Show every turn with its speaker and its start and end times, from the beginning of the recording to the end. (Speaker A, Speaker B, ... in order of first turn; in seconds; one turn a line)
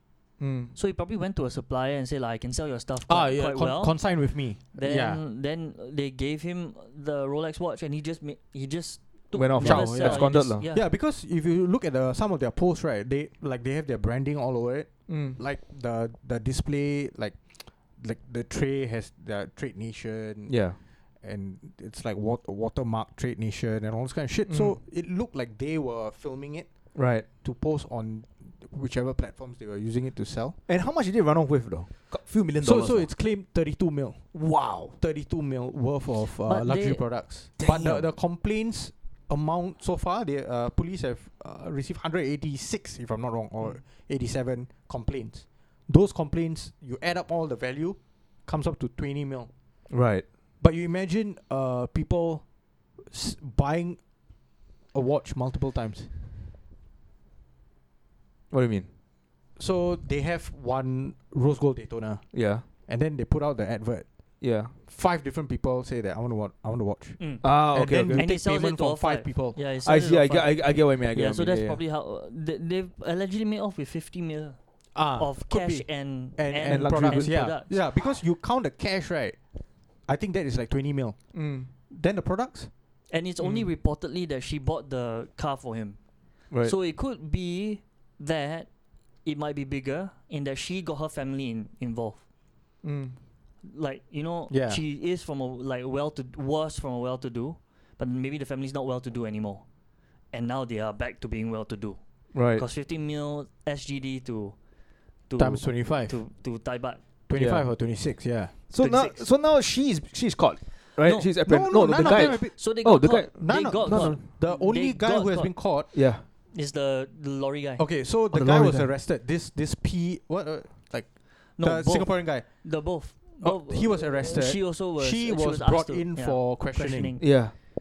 Speaker A: 0.4-0.7
Speaker B: 0.8-10.8
Speaker C: 3.1-5.2
Speaker A: 9.3-10.7
Speaker C: 9.6-30.6
Speaker A: 15.1-15.4
Speaker A: 20.5-20.8
Speaker A: 24.5-24.8
Speaker A: 26.9-27.3
Speaker A: 30.7-33.1
Speaker C: 32.6-49.5
Speaker A: 34.3-35.0
Speaker B: 36.4-37.0
Speaker A: 37.6-38.1
Speaker A: 49.9-50.3
Speaker C: 50.6-52.5
Speaker C: 53.0-54.3
Speaker C: 54.9-56.1
Speaker A: 58.5-58.9
Speaker C: 59.6-69.6
Speaker A: 62.3-62.6
Speaker A: 64.4-64.7
Speaker B: 67.2-77.9
Speaker A: 67.4-68.3
Speaker A: 69.8-71.8
Speaker C: 75.0-79.4
Speaker A: 76.7-77.4
Speaker C: 80.1-82.7
Speaker A: 81.3-81.7
Speaker B: 83.1-88.7
Speaker A: 83.4-83.7
Speaker A: 86.5-86.8
Speaker B: 89.2-92.2
Speaker A: 92.8-93.2
Speaker B: 93.6-99.7
Speaker C: 94.5-94.8
Speaker B: 100.3-104.6
Speaker A: 102.3-102.6
Speaker B: 105.3-107.0
Speaker C: 105.4-106.2
Speaker C: 107.3-108.7
Speaker A: 107.4-107.7
Speaker A: 108.7-114.2
Speaker B: 108.8-109.2
Speaker B: 111.0-115.6
Speaker C: 111.4-115.9
Speaker A: 115.9-116.2
Speaker B: 116.5-117.8
Speaker C: 117.8-127.2
Speaker A: 118.3-118.9
Speaker B: 121.6-127.2
Speaker A: 127.2-127.5